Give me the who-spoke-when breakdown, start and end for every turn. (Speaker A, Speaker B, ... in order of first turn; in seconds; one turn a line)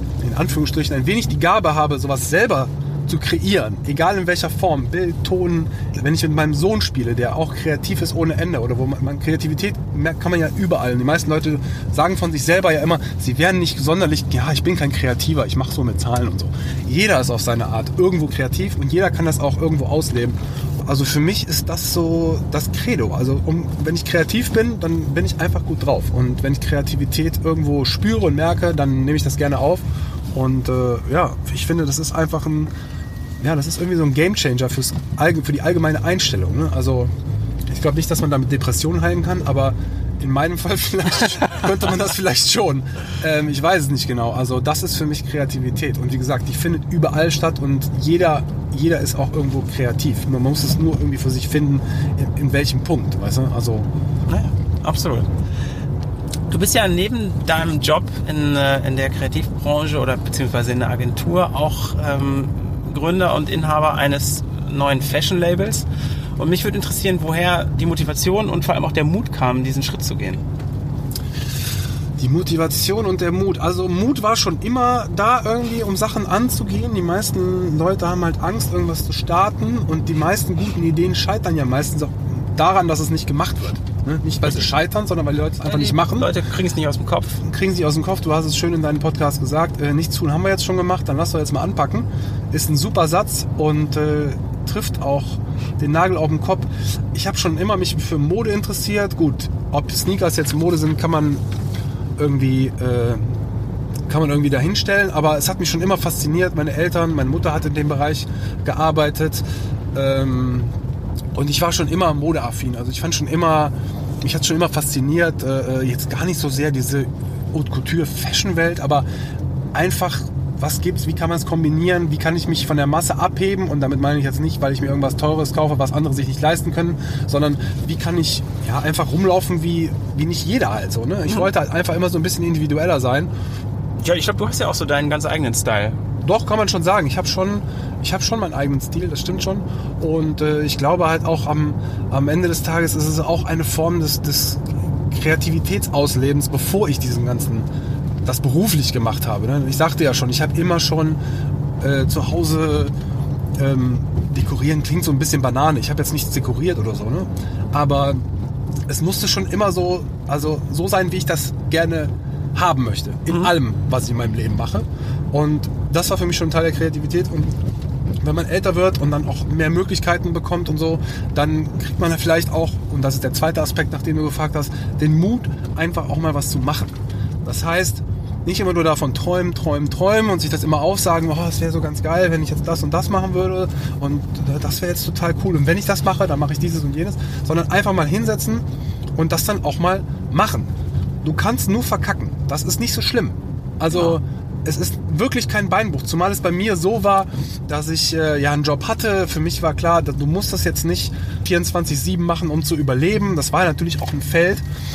Speaker A: 0.2-32.7
Speaker A: 33.4-37.1
Speaker A: 37.7-53.9
Speaker B: 54.3-55.3
Speaker B: 56.5-65.8
Speaker B: 66.4-70.4
Speaker A: 72.2-86.3
Speaker B: 85.6-87.4
Speaker A: 87.4-101.4
Speaker A: 102.2-103.3
Speaker A: 104.1-109.4
Speaker A: 109.9-110.7
Speaker A: 111.3-119.0
Speaker A: 119.7-133.3
Speaker B: 134.0-136.0
Speaker A: 136.2-147.7
Speaker A: 148.2-151.2
Speaker A: 151.8-152.9
Speaker A: 153.6-158.2
Speaker A: 158.9-167.6
Speaker A: 168.2-188.6
Speaker A: 189.1-204.6
Speaker B: 193.9-194.2